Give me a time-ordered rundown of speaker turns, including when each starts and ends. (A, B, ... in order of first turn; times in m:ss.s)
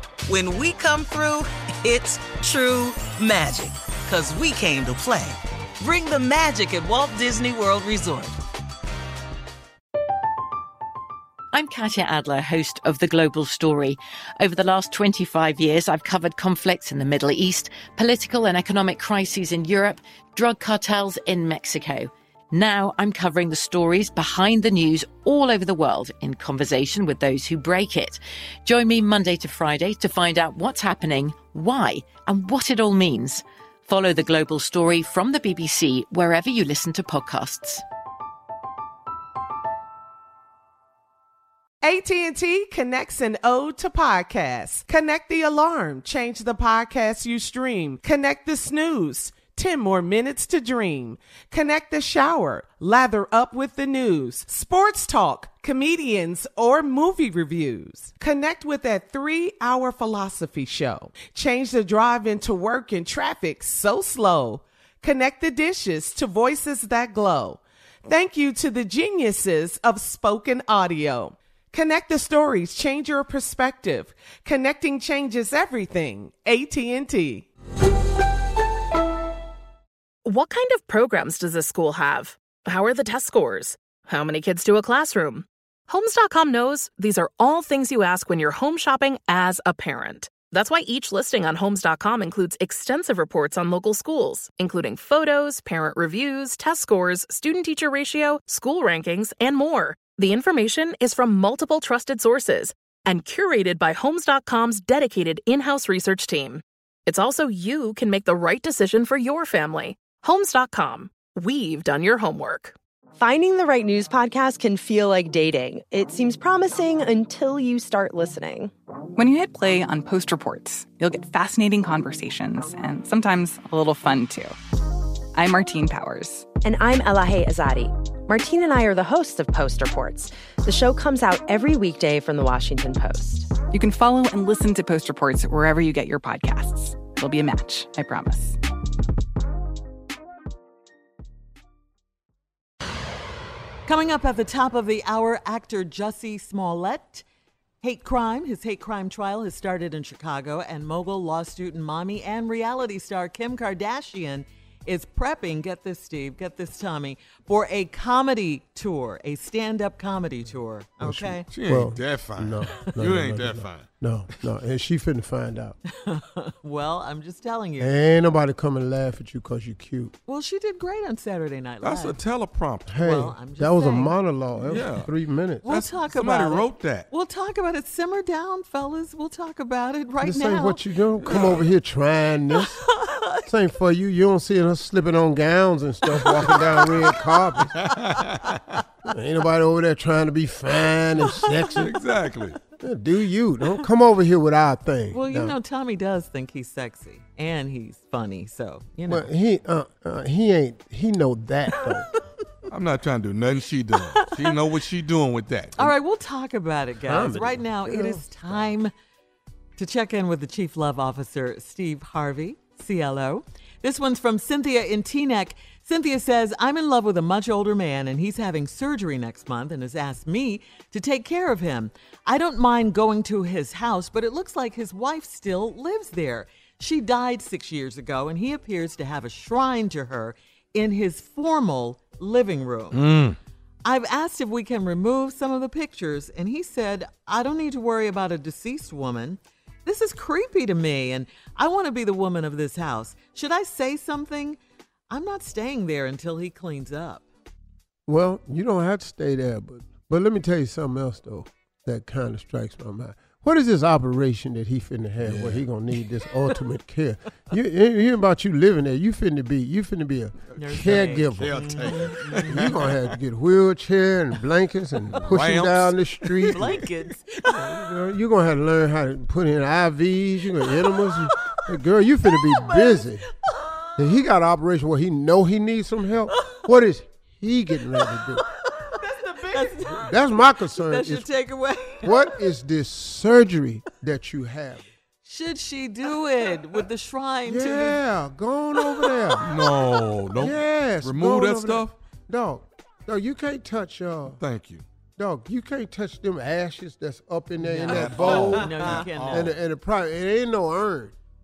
0:00.2-0:08.4 A
0:11.5-0:37.8 B
0:41.8-1:17.4 C
1:20.3-1:52.7 D
1:53.2-1:58.7 E
1:59.1-2:04.6 F
2:05.3-2:06.5 F
2:06.6-2:13.5 E
2:13.7-2:18.6 F
2:23.8-2:27.2 G
2:27.8-2:41.5 G
2:41.0-2:45.8 H
2:41.5-2:43.9 I
2:46.0-2:48.0 G
2:47.8-2:50.1 H
2:50.2-2:52.2 G
2:51.8-2:53.0 I
2:52.8-2:55.7 H
2:53.0-2:54.2 G
2:54.5-2:55.1 I
2:55.6-3:01.6 G
2:55.6-2:57.1 I
3:00.2-3:02.8 H
3:01.2-3:01.7 I
3:02.5-3:03.5 G
3:03.4-3:07.7 H
3:06.2-3:06.8 G
3:07.7-3:08.5 I
3:09.0-3:11.9 H
3:11.5-3:11.8 G
3:11.7-3:12.6 I
3:12.8-3:15.6 H
3:15.1-3:19.3 G
3:19.1-3:22.1 H
3:21.8-3:22.2 G
3:22.7-3:25.8 I
3:25.8-3:28.9 G
3:27.0-3:28.7 H
3:29.8-3:53.1 G
3:52.9-3:53.4 I
3:53.8-4:04.6 G
4:05.1-4:07.2 G
4:08.1-4:21.9 H
4:15.2-4:15.7 I
4:20.5-4:22.9 I
4:20.6-4:22.9 G
4:22.5-4:26.9 H
4:25.2-4:26.0 I
4:26.5-4:27.8 G
4:27.4-4:33.3 H
4:30.6-4:30.9 G
4:32.3-4:33.1 G
4:34.0-4:38.4 H
4:39.0-4:39.9 C
4:39.5-4:42.4 G
4:39.9-4:41.3 H
4:42.0-4:44.9 H
4:45.2-4:48.0 G
4:47.4-4:49.5 H
4:48.9-4:49.3 G
4:49.4-4:52.0 I
4:50.4-4:54.4 H
4:54.4-4:54.8 I
4:55.2-5:01.1 H
4:57.8-4:58.8 C
4:57.9-4:59.5 G
4:58.0-4:59.6 I